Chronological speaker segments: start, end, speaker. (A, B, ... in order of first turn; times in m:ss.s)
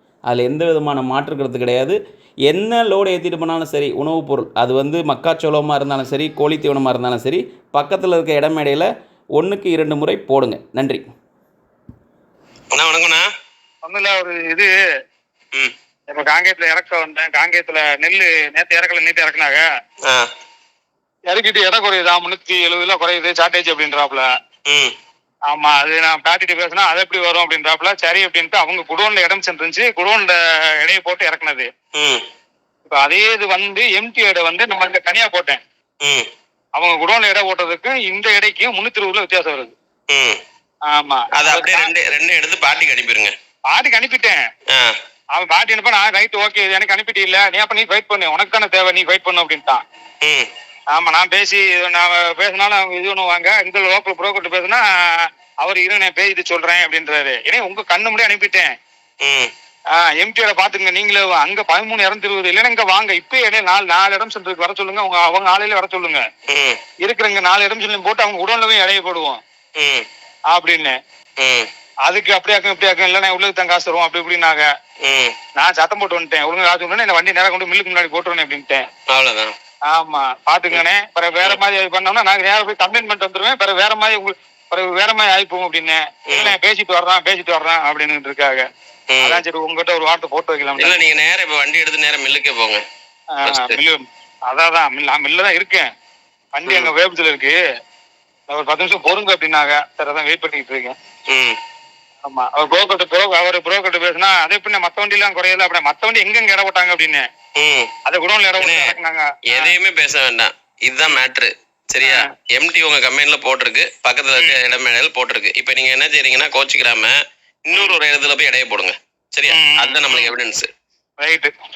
0:00.3-0:02.0 A
0:02.5-0:11.0 A
0:12.7-0:13.2 B
0:13.8-0:14.7 C
0:16.1-0:19.6 C
0:21.3-0:24.3 C
0:24.7-0:24.9 B
0:25.5-0:31.7 C
0:32.0-0:32.2 B
0:32.9-0:35.6 C
0:36.7-0:39.8 C
0:40.1-0:40.4 B
0:40.9-0:41.9 C
0:41.4-0:43.3 B
0:43.7-0:44.4 C
0:45.3-0:49.8 C
0:50.2-0:50.5 B
0:50.9-0:58.7 C
0:59.2-0:59.5 B
0:59.9-1:06.2 C
1:06.5-1:06.8 B
1:07.0-1:09.4 C
1:09.8-1:10.0 B
1:10.5-1:11.0 C
1:11.4-1:11.7 B
1:12.0-1:14.7 C
1:15.0-1:15.3 B
1:15.6-1:18.8 C
1:19.1-1:19.5 B
1:19.9-1:28.7 C
1:26.3-1:26.6 B
1:29.1-1:29.4 B
1:29.2-1:31.0 C
1:30.8-1:32.8 B
1:33.4-1:35.9 C
1:33.4-1:33.8 B
1:36.5-1:37.6 C
1:36.7-1:36.9 B
1:38.5-1:41.0 C
1:41.3-1:41.6 B
1:42.2-1:47.2 C
1:47.6-1:47.9 B
1:48.1-1:49.8 C
1:48.6-1:49.0 B
1:49.5-1:57.1 B
1:52.0-1:52.3 C
1:57.7-2:00.7 B
1:57.7-1:58.0 C
1:59.5-2:00.3 C
2:01.2-2:01.5 C